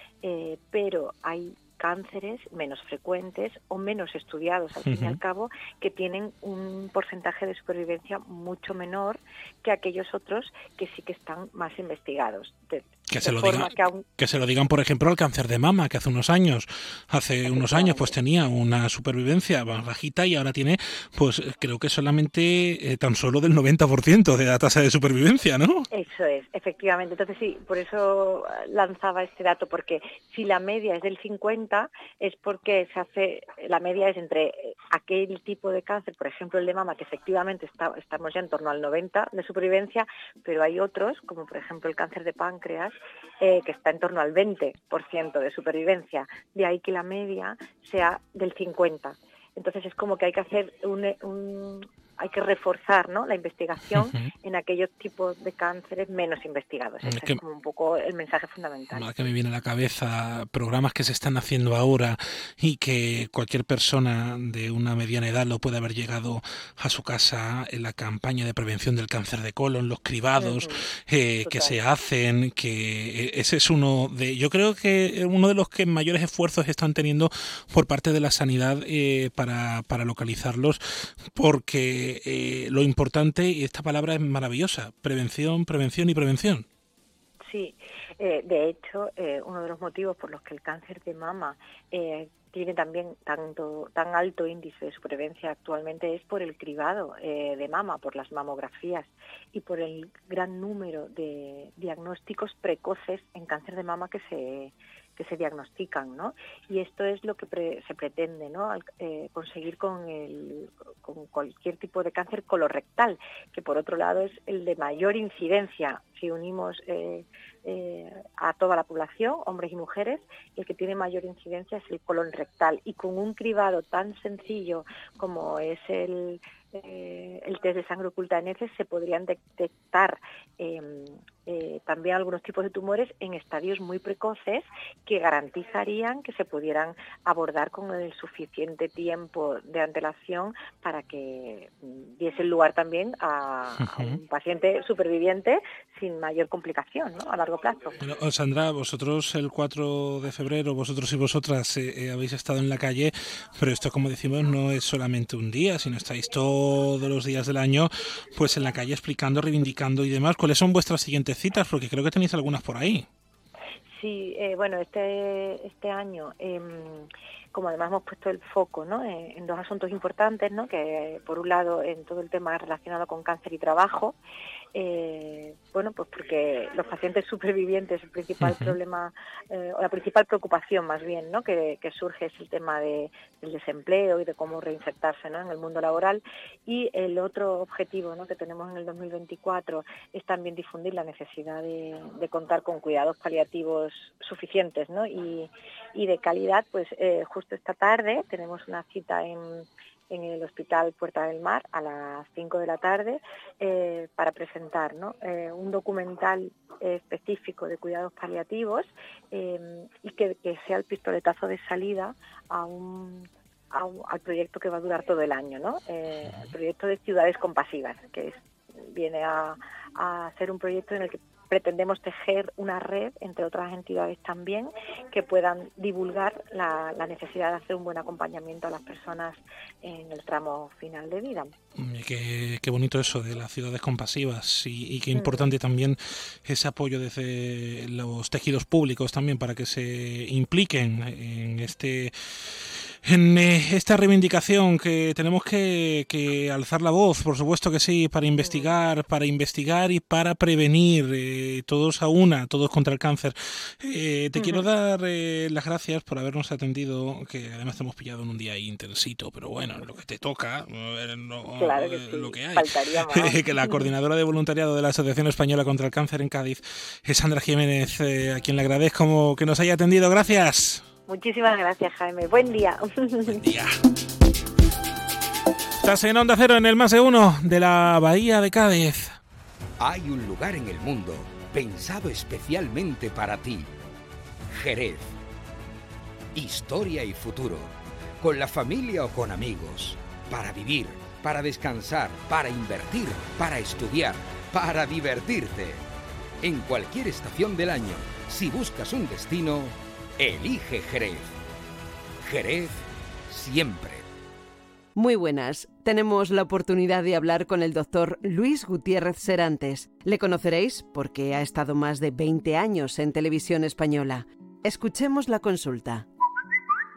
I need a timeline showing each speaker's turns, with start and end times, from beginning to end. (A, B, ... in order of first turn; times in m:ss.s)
0:00.2-0:14.0 A
0:04.8-0:05.2 B
0:13.1-0:25.9 B
0:17.5-0:18.1 A
0:25.9-0:59.1 A
0:53.9-0:54.3 B
0:57.0-0:57.4 B
0:58.9-1:26.7 B
1:10.4-1:10.8 A
1:11.4-1:11.8 A
1:27.5-2:28.0 A
2:23.8-2:24.2 B
2:28.0-2:43.1 B
2:44.0-2:54.2 A
2:54.8-3:51.5 A
2:58.4-2:58.8 B
3:51.8-4:02.1 B
3:55.1-3:55.5 A
4:03.0-4:30.8 B
4:08.4-4:08.7 A
4:14.4-4:14.7 A
4:21.6-4:23.8 A
4:31.1-4:33.4 A
4:33.3-4:33.8 B
4:35.8-4:39.2 B
4:39.8-4:43.7 C
4:44.6-4:45.1 C
4:46.4-4:47.7 C
4:48.2-4:55.8 C
4:56.4-5:01.3 C
5:02.3-5:02.8 C
5:03.3-5:04.0 C
5:05.0-5:16.0 D